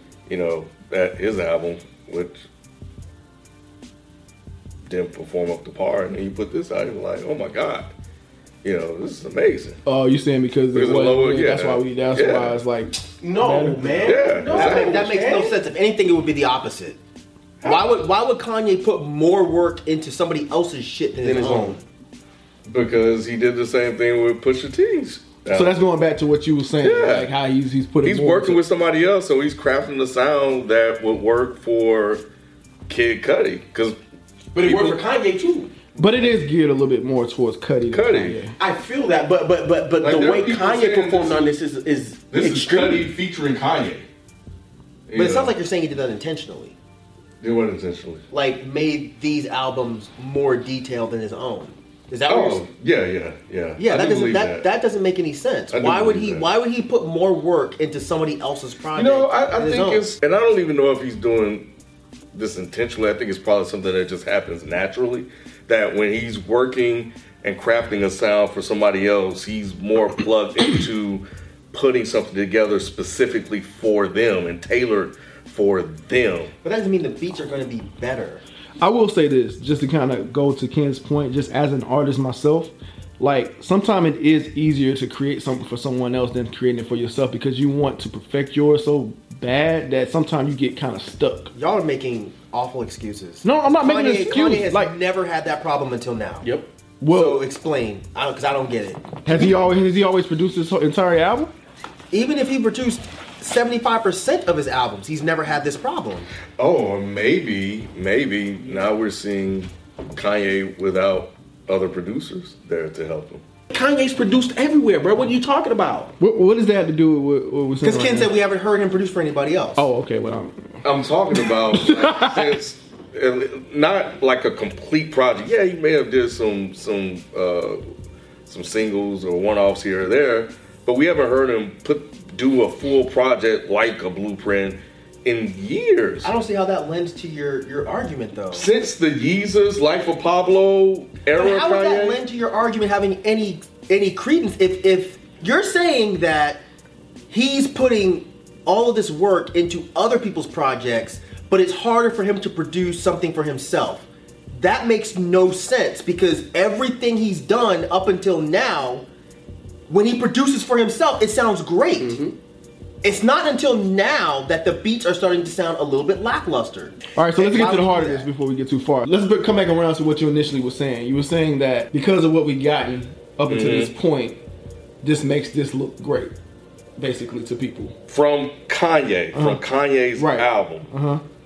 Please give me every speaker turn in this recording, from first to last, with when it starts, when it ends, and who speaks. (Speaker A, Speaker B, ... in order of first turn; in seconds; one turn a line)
Speaker A: 0.3-2.5
Speaker A: 4.8-7.9
Speaker A: 8.6-9.8
Speaker B: 9.8-14.2
Speaker A: 10.7-12.6
Speaker C: 13.2-15.6
Speaker A: 14.0-15.0
Speaker D: 14.5-17.0
Speaker D: 17.6-21.8
Speaker C: 21.2-21.8
Speaker A: 22.7-25.7
Speaker B: 25.5-28.6
Speaker A: 26.8-27.3
Speaker A: 28.0-32.2
Speaker A: 32.9-34.0
Speaker A: 34.5-35.0
Speaker C: 34.5-35.7
Speaker B: 36.0-38.5
Speaker A: 36.0-36.3
Speaker A: 37.9-38.4
Speaker C: 38.6-43.1
Speaker A: 40.0-41.5
Speaker A: 42.3-44.1
Speaker A: 45.1-45.5
Speaker D: 45.1-46.8
Speaker A: 47.4-48.2
Speaker D: 48.3-52.6
Speaker A: 52.3-54.6
Speaker D: 53.8-60.1
Speaker A: 55.7-56.5
Speaker A: 58.9-61.7
Speaker A: 62.3-76.5
Speaker D: 76.6-78.4
Speaker B: 78.8-91.5
Speaker D: 91.5-96.5
Speaker B: 93.4-94.9
Speaker C: 96.4-96.7
Speaker B: 97.0-97.4
Speaker D: 97.1-99.1
Speaker B: 99.2-101.5
Speaker D: 102.1-106.3
Speaker A: 106.6-113.4
Speaker C: 113.7-116.1
Speaker B: 116.2-118.3
Speaker D: 117.8-119.9
Speaker B: 119.8-120.8
Speaker A: 120.8-127.8
Speaker B: 121.3-122.5
Speaker A: 128.5-136.3
Speaker D: 136.2-138.7
Speaker A: 138.5-142.2
Speaker D: 141.3-146.6
Speaker D: 147.3-159.1
Speaker D: 159.9-162.2
Speaker C: 162.0-162.3
Speaker D: 163.0-168.3
Speaker B: 167.2-174.4
Speaker A: 173.5-173.9
Speaker B: 175.0-176.3
Speaker B: 177.0-177.9
Speaker A: 178.1-180.9
Speaker B: 179.3-179.6
Speaker B: 180.1-181.2